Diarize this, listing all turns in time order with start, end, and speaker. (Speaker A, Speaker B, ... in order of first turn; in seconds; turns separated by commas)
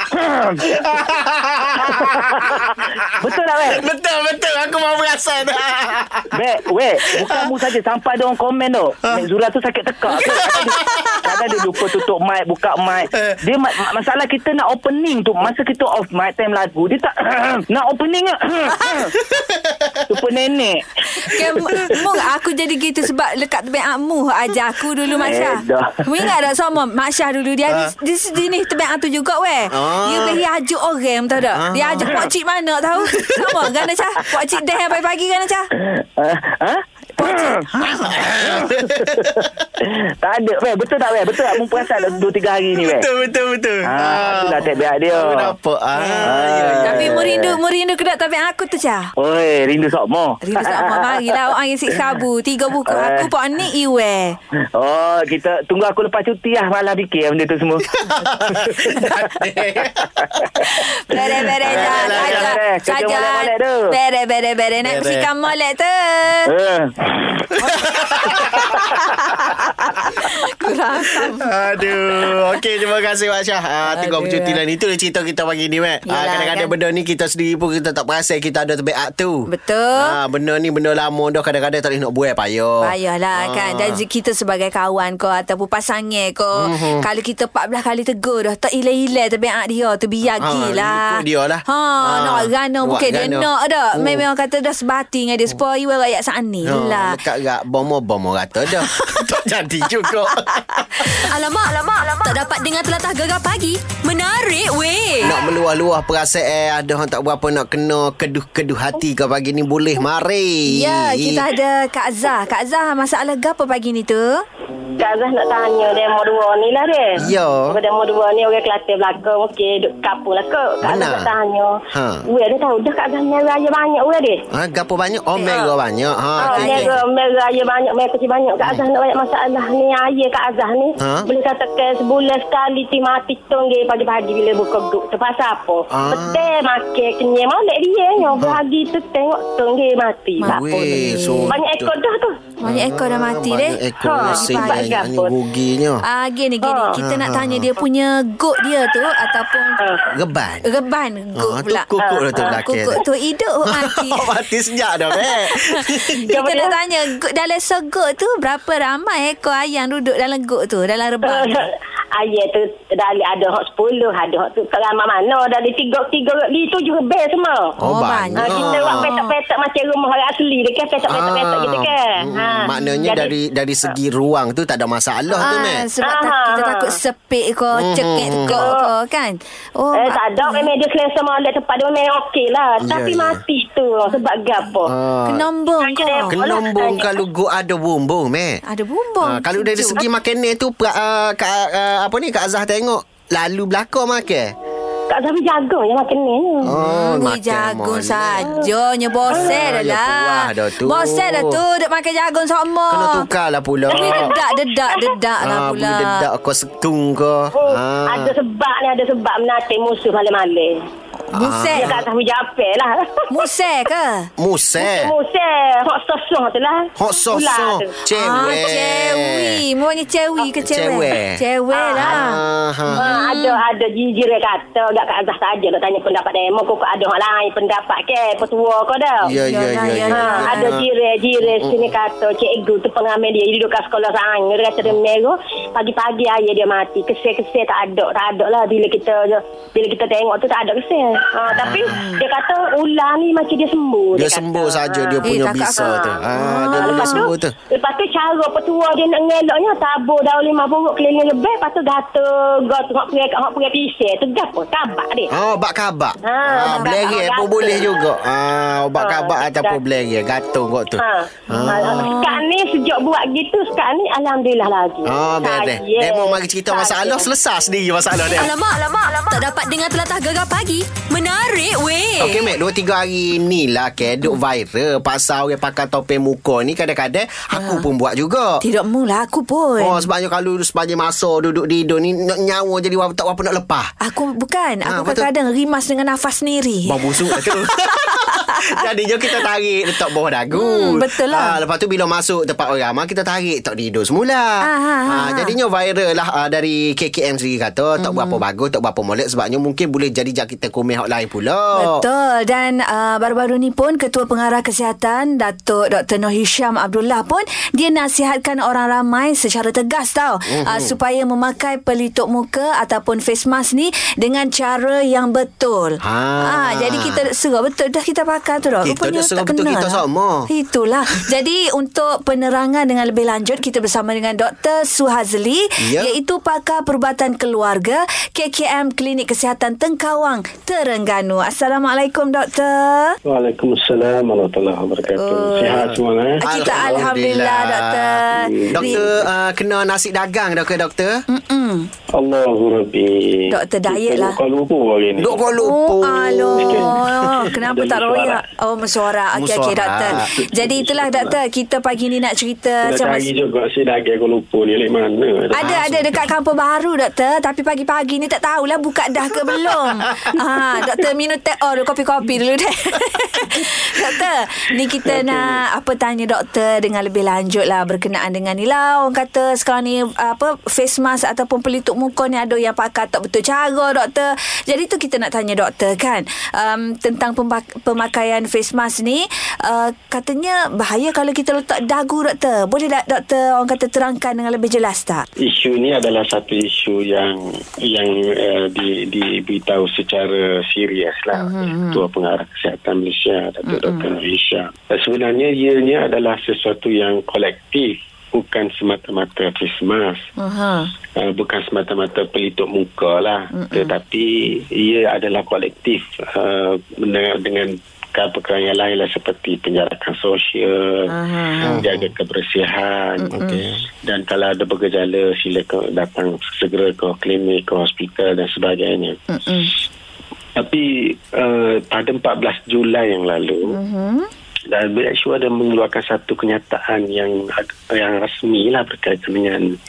Speaker A: 0.1-0.8, Speaker B: 0.6-3.0, Speaker A: 2.0-3.9, Speaker B: 3.6-6.3, Speaker A: 6.3-19.1, Speaker B: 7.1-7.5, Speaker B: 10.1-11.4, Speaker B: 19.3-20.0, Speaker A: 20.1-21.9, Speaker C: 21.2-35.7, Speaker A: 25.2-26.3, Speaker B: 27.7-27.9, Speaker B: 29.7-30.4, Speaker B: 31.5-32.3, Speaker B: 33.1-33.7, Speaker A: 35.8-37.7, Speaker B: 38.0-39.5, Speaker A: 38.4-43.1, Speaker B: 42.8-47.2, Speaker A: 43.8-45.5, Speaker C: 46.0-46.3, Speaker A: 46.2-47.6, Speaker C: 46.8-49.1, Speaker A: 49.2-51.5, Speaker C: 50.4-54.4, Speaker A: 52.9-53.3, Speaker A: 54.8-57.9, Speaker B: 58.0-60.1, Speaker A: 58.5-59.3, Speaker A: 60.2-64.0, Speaker C: 60.7-66.5, Speaker B: 61.6-62.6, Speaker B: 64.8-65.3, Speaker A: 66.5-67.5, Speaker C: 67.7-71.5, Speaker B: 67.7-68.8, Speaker B: 71.1-84.0, Speaker C: 73.9-74.6, Speaker C: 76.1-76.7, Speaker C: 79.5-80.2, Speaker C: 82.8-97.2, Speaker B: 86.6-87.1, Speaker B: 90.4-94.2, Speaker B: 96.6-101.1, Speaker C: 100.7-101.2, Speaker D: 101.1-105.4, Speaker B: 105.2-111.5, Speaker C: 110.7-114.4, Speaker E: 115.0-124.4, Speaker B: 117.2-117.8, Speaker B: 120.8-121.3, Speaker B: 121.9-122.2, Speaker B: 124.5-127.0, Speaker E: 125.4-125.7, Speaker E: 126.4-142.4, Speaker C: 126.5-126.9, Speaker B: 131.0-131.3, Speaker B: 135.9-136.5, Speaker C: 140.4-141.6, Speaker B: 140.4-141.9, Speaker C: 142.6-145.0, Speaker B: 142.7-146.0, Speaker E: 144.0-145.3, Speaker C: 146.0-149.8, Speaker E: 146.6-146.9, Speaker B: 147.0-147.7, Speaker E: 149.8-150.1, Speaker B: 150.1-150.7, Speaker C: 150.7-154.3, Speaker B: 151.3-153.0, Speaker E: 152.0-152.6, Speaker B: 153.7-156.2, Speaker C: 155.3-161.7, Speaker E: 156.3-156.7, Speaker E: 161.2-167.8, Speaker B: 167.8-169.1, Speaker C: 167.8-169.3, Speaker E: 168.4-173.3, Speaker B: 171.1-175.9, Speaker C: 175.4-180.7, Speaker E: 176.0-176.9, Speaker B: 177.8-178.7, Speaker E: 178.5-178.9, Speaker E: 179.9-184.9, Speaker B: 182.8-183.4, Speaker B: 184.8-185.4, Speaker C: 185.3-186.4, Speaker E: 185.8-187.2, Speaker B: 186.3-188.6, Speaker C: 188.7-190.0, Speaker B: 189.2-194.5, Speaker E: 195.1-196.7, Speaker B: 196.6-198.6, Speaker C: 196.7-203.3, Speaker B: 199.3-201.6, Speaker B: 202.9-204.3, Speaker C: 203.9-206.3, Speaker E: 203.9-204.6, Speaker B: 205.4-208.3, Speaker E: 207.6-210.8, Speaker C: 211.3-211.9, Speaker B: 211.3-212.1, Speaker E: 211.7-213.3, Speaker C: 213.3-214.3, Speaker B: 214.4-215.1, Speaker E: 214.8-217.9, Speaker B: 217.0-219.6, Speaker C: 218.1-222.4, Speaker B: 220.6-221.4, Speaker E: 221.7-222.2, Speaker B: 222.0-223.2, Speaker E: 222.9-229.3, Speaker C: 223.0-223.6, Speaker B: 229.2-230.9, Speaker C: 229.4-230.8, Speaker E: 230.1-245.2, Speaker B: 231.6-231.8, Speaker B: 241.5-242.0, Speaker C: 241.8-242.2, Speaker B: 244.2-247.5, Speaker C: 245.2-247.2, Speaker E: 245.8-246.2, Speaker E: 246.8-255.3, Speaker B: 255.3-262.1, Speaker E: 256.2-257.9, Speaker E: 259.0-259.8, Speaker E: 261.0-267.3, Speaker C: 261.5-262.4, Speaker B: 265.1-268.5, Speaker D: 268.3-272.5, Speaker B: 272.2-278.6, Speaker C: 277.5-277.9, Speaker C: 278.6-280.0, Speaker B: 279.8-283.9, Speaker C: 284.0-288.7, Speaker B: 284.9-285.3, Speaker B: 286.9-302.0, Speaker C: 290.5-291.6, Speaker C: 294.6-295.5, Speaker C: 298.0-298.4, Speaker C: 301.8-333.2, Speaker B: 310.5-310.9, Speaker B: 316.0-317.3, Speaker B: 318.8-320.5, Speaker B: 325.8-326.1, Speaker F: 333.2-337.1, Speaker C: 335.1-335.9, Speaker C: 336.4-339.2, Speaker B: 336.4-341.2, Speaker F: 338.3-339.1, Speaker C: 341.3-341.9, Speaker F: 342.1-345.7, Speaker C: 343.5-344.4, Speaker B: 345.2-347.4, Speaker C: 345.6-353.3, Speaker F: 346.5-348.4, Speaker B: 349.3-350.3, Speaker F: 350.1-351.4, Speaker F: 352.8-355.9, Speaker C: 355.5-385.2, Speaker B: 355.6-356.2, Speaker F: 365.1-365.5, Speaker F: 385.4-400.2, Speaker C: 391.4-392.1, Speaker C: 393.7-394.1, Speaker C: 400.4-400.9, Speaker F: 401.2-413.4, Speaker C: 403.5-403.9, Speaker C: 411.1-411.8, Speaker B: 411.6-412.1, Speaker C: 413.2-413.6, Speaker B: 413.3-413.7, Speaker F: 414.1-419.2, Speaker C: 419.3-419.7, Speaker F: 420.6-423.8, Speaker C: 423.7-424.3, Speaker F: 424.7-429.8